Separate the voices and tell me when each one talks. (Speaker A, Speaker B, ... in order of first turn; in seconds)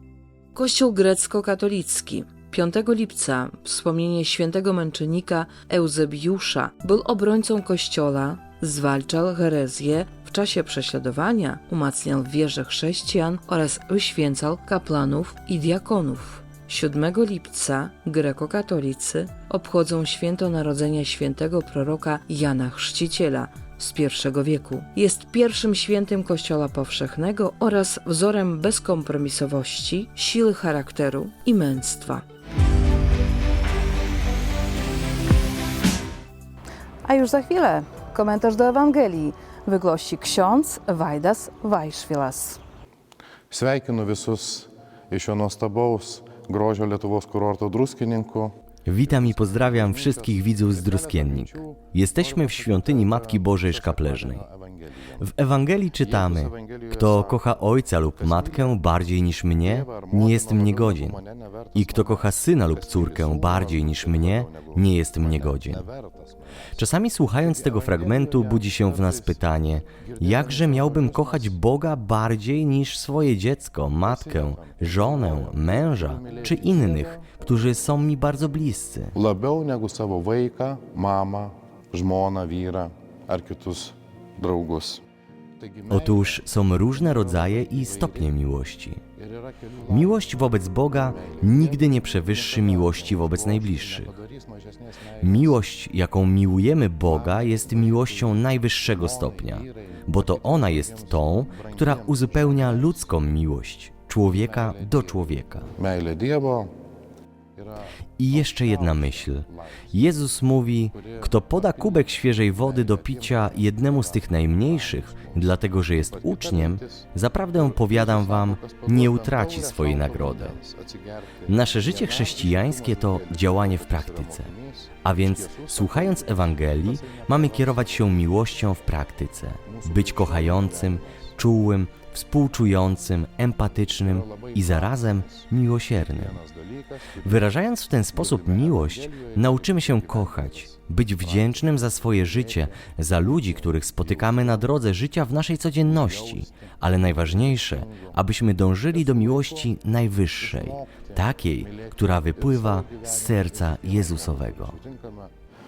Speaker A: 0.5-32.2
Speaker B: 37.0-42.6
Speaker C: 43.5-48.5, 49.2-51.6, 52.3-53.3, 53.9-54.5, 56.0-57.4, 58.2-58.8, 59.7-65.9, 67.5-69.3, 70.1-71.5, 74.1-77.3, 79.2-85.0, 85.6-86.3, 87.2-88.2, 89.9-90.1, 91.1-94.7, 95.2-95.5, 97.1-98.4, 99.0-103.0, 104.4-105.1, 105.8-106.7, 108.3-109.2, 110.9-116.8, 117.5-121.2, 121.7-124.7, 125.3-128.1, 129.7-131.0, 134.1-137.5, 138.1-140.7, 141.2-141.8, 142.3-142.8, 143.4-144.7, 145.9-146.4, 147.2-148.1, 149.0-149.6, 150.4-155.3
Speaker D: 48.8-54.4, 55.2-61.2, 61.7-65.8, 66.8-79.1, 85.9-89.0, 89.9-94.2, 95.2-105.7, 108.2-120.6, 121.5-124.5, 125.0-136.4, 137.2-154.8